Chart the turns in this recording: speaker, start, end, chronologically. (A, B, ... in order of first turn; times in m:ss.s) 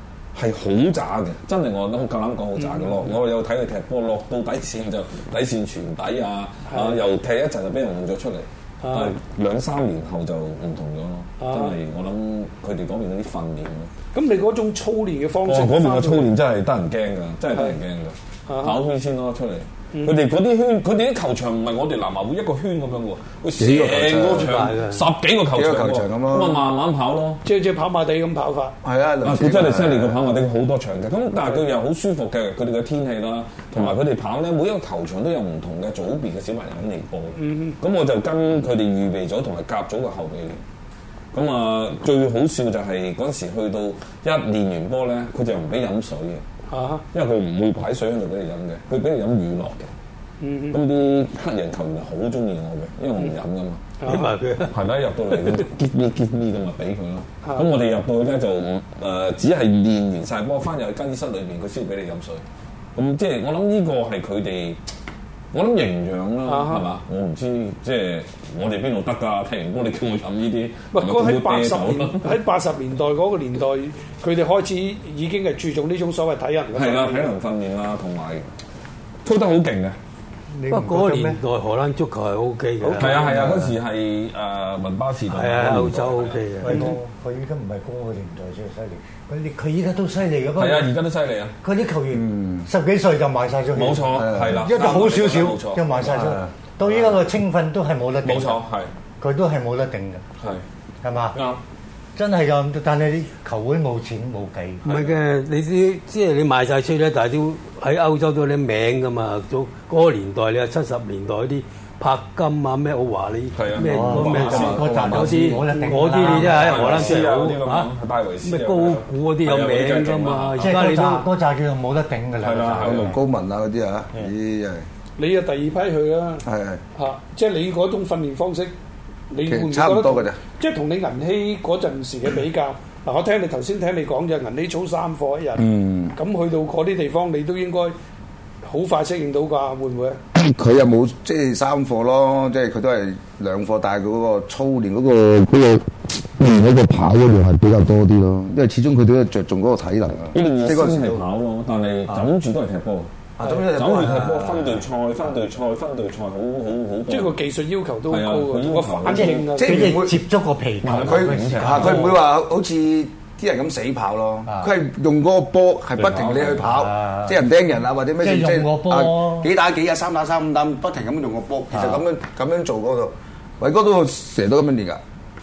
0:00.3-0:13.9 A
0:02.6-0:03.0 B
0:06.7-0:07.0 B
0:08.8-0:09.1 B
0:11.4-0:11.8 B
0:14.1-0:16.3 B
0:15.4-0:27.4 A
0:18.5-0:18.8 B
0:23.6-0:24.6 C
0:24.3-0:25.1 D
0:25.5-0:26.6 C
0:27.4-0:28.7 B
0:28.8-0:30.2 C
0:29.2-0:40.6 A
0:37.4-0:37.8 B
0:41.3-0:46.4 A
0:46.7-0:47.0 B
0:47.1-0:49.9 A
0:50.4-0:50.8 B
0:50.7-0:53.8 A
0:54.0-0:54.3 B
0:54.0-0:54.8 D
0:54.7-1:02.4 A
1:02.9-1:04.8 A
1:05.5-1:12.4 A
1:06.4-1:06.9 B
1:10.9-1:17.3 B
1:16.7-1:18.4 A
1:19.2-1:20.0 A
1:20.5-1:21.4 E
1:20.7-1:23.2 D
1:22.8-1:26.4 A
1:22.9-1:23.2 B
1:23.2-1:23.7 C
1:25.3-1:26.9 D
1:26.6-1:30.9 E
1:30.6-1:31.5 A
1:31.6-1:38.6 E
1:32.1-1:32.7 C
1:33.7-1:36.0 A
1:34.1-1:34.7 C
1:36.0-1:37.1 C
1:38.2-1:38.9 A
1:39.2-1:40.2 E
1:40.4-1:40.6 A
1:41.0-1:41.4 E
1:41.3-1:41.6 A
1:42.2-1:44.8 E
1:44.8-1:45.1 A
1:44.8-1:57.9 D
1:53.5-1:55.6 A
1:53.8-1:57.2 E
1:55.8-1:56.0 B
1:56.2-2:00.8 A
1:58.4-2:01.2 D
2:00.6-2:03.2 E
2:02.4-2:03.1 A
2:02.8-2:04.8 C
2:05.2-2:06.4 B
2:06.4-2:06.8 C
2:07.0-2:08.7 B
2:09.3-2:15.6 B
2:09.4-2:10.4 C
2:15.6-2:16.2 C
2:16.2-2:17.9 B
2:18.6-2:20.2 B
2:20.3-2:31.2 C
2:30.3-2:33.1 A
2:33.4-2:34.8 C
2:33.7-2:37.4 A
2:37.1-2:40.0 B
2:38.1-2:39.5 A
2:39.1-2:42.1 E
2:39.5-2:40.2 C
2:40.8-2:42.2 A
2:41.0-2:55.0 C
2:44.4-2:44.7 E
2:46.0-2:46.6 A
2:46.6-2:47.4 E
2:48.2-2:49.5 E
2:51.7-2:52.0 E